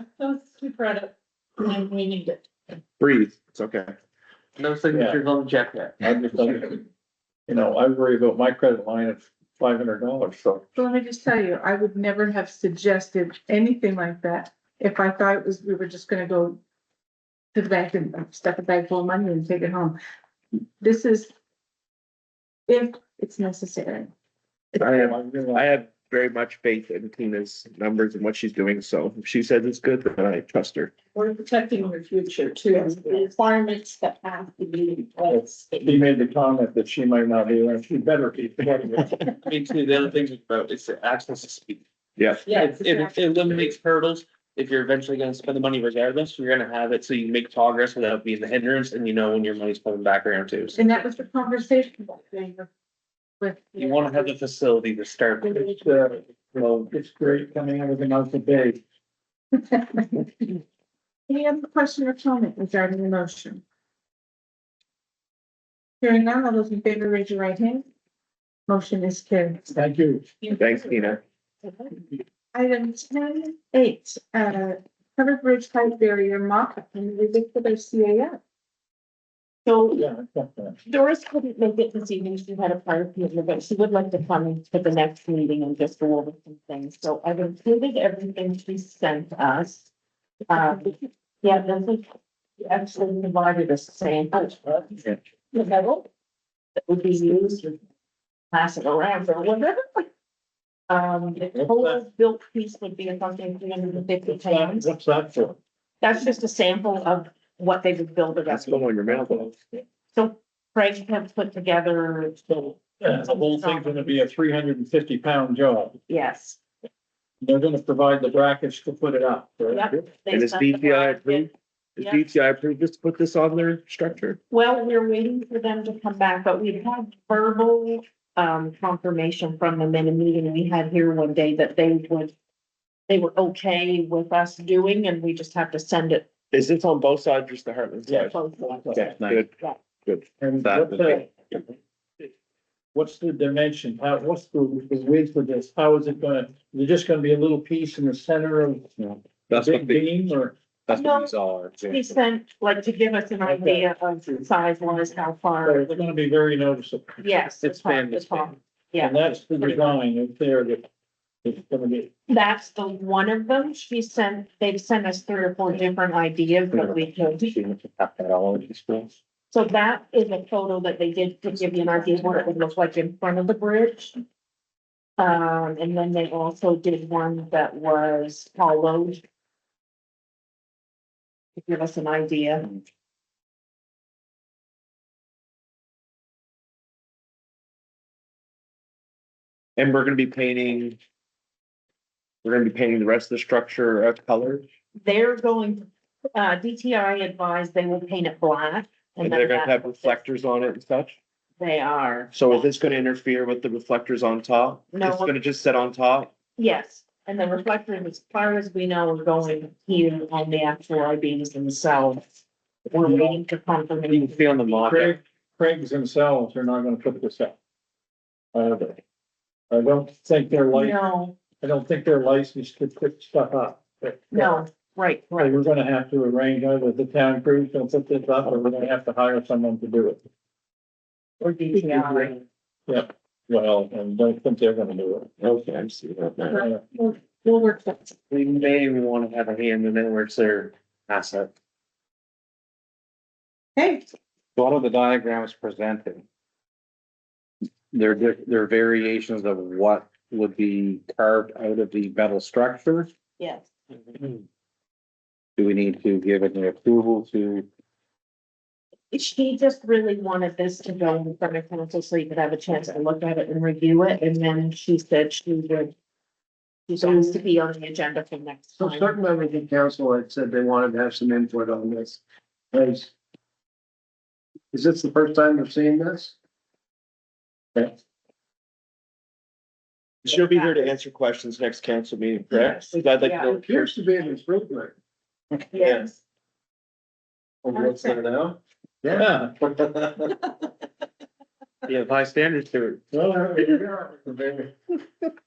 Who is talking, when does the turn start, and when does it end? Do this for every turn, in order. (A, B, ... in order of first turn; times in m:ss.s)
0:00.2-0:01.1 A
0:01.6-0:02.4 A
0:03.0-0:03.9 B
0:04.6-0:06.0 C
0:04.9-0:05.2 D
0:06.0-0:06.8 D
0:07.5-0:10.6 D
0:10.7-0:16.6 A
0:17.5-0:20.0 A
0:20.5-0:21.3 A
0:22.7-0:24.1 A
0:24.8-0:30.9 B
0:25.0-0:25.7 D
0:31.2-0:35.6 A
0:35.3-0:39.2 D
0:39.4-0:41.8 C
0:42.2-0:42.4 B
0:42.4-0:50.8 C
0:42.6-0:43.1 A
0:50.8-0:52.7 A
0:53.4-0:54.3 A
0:53.8-0:55.7 C
0:55.4-0:58.8 D
0:59.7-1:00.0 A
1:01.3-1:03.6 A
1:06.0-1:07.8 A
1:08.7-1:09.6 A
1:09.7-1:10.3 D
1:10.4-1:11.1 E
1:10.5-1:11.2 B
1:11.6-1:11.9 E
1:12.5-1:18.4 A
1:19.6-1:20.0 E
1:19.9-1:20.8 D
1:20.8-1:29.9 E
1:30.5-1:32.1 E
1:32.6-1:35.0 E
1:36.8-1:37.8 E
1:38.5-1:40.0 E
1:40.9-1:44.9 E
1:41.5-1:42.0 D
1:44.2-1:45.6 D
1:46.0-1:48.9 E
1:48.5-1:49.5 B
1:48.9-1:49.5 D
1:50.1-1:52.4 E
1:52.4-1:56.0 D
1:53.2-1:54.2 E
1:56.1-1:56.6 E
1:57.4-2:00.0 D
1:59.7-2:02.2 E
2:00.3-2:04.4 B
2:04.5-2:12.3 E
2:13.1-2:16.3 E
2:16.5-2:18.4 B
2:18.1-2:19.8 E
2:18.9-2:19.5 B
2:20.0-2:21.2 B
2:20.4-2:21.3 D
2:22.9-2:30.6 D
2:29.5-2:30.0 B
2:30.9-2:32.1 F
2:30.9-2:31.3 E
2:31.9-2:36.1 E
2:33.4-2:34.4 D
2:35.6-2:37.2 D
2:37.2-2:39.9 E
2:37.6-2:38.5 C
2:39.0-2:40.9 D
2:41.4-2:42.1 D
2:42.3-2:47.5 E
2:46.7-2:49.1 F
2:49.5-2:54.2 E
2:55.2-2:59.2 E
3:01.6-3:02.7 E
3:09.8-3:11.0 B
3:12.4-3:14.6 B
3:15.0-3:20.2 E
3:19.2-3:21.2 B
3:21.6-3:22.7 E
3:22.3-3:26.3 B
3:24.9-3:25.3 E
3:26.6-3:32.2 E
3:32.9-3:34.8 E
3:33.0-3:33.4 D
3:34.1-3:35.2 C
3:34.8-3:37.6 D
3:38.5-3:39.0 D
3:39.7-3:44.6 D
3:40.7-3:41.4 E
3:44.3-3:45.6 E
3:45.4-3:50.2 D
3:51.4-3:52.4 E
3:51.7-3:52.3 D
3:52.9-3:55.3 D
3:55.4-3:56.6 B
3:56.5-3:56.8 D
3:56.6-3:58.1 A
3:58.3-4:01.5 C
4:03.8-4:04.0 A
4:04.6-4:06.2 F
4:07.9-4:13.1 F
4:13.4-4:13.7 E
4:15.6-4:17.7 F
4:19.1-4:25.9 E
4:26.9-4:29.2 E
4:27.0-4:27.4 G
4:28.8-4:32.2 G
4:32.7-4:33.1 G
4:34.7-4:36.4 G
4:40.2-4:44.0 B
4:40.3-4:40.8 E
4:42.5-4:43.5 E
4:43.0-4:44.9 G
4:45.7-4:46.2 E
4:45.8-4:46.1 B
4:47.6-4:50.1 G
4:47.7-4:48.2 E
4:49.1-4:49.5 D
4:51.8-4:53.0 C
4:53.2-4:54.7 G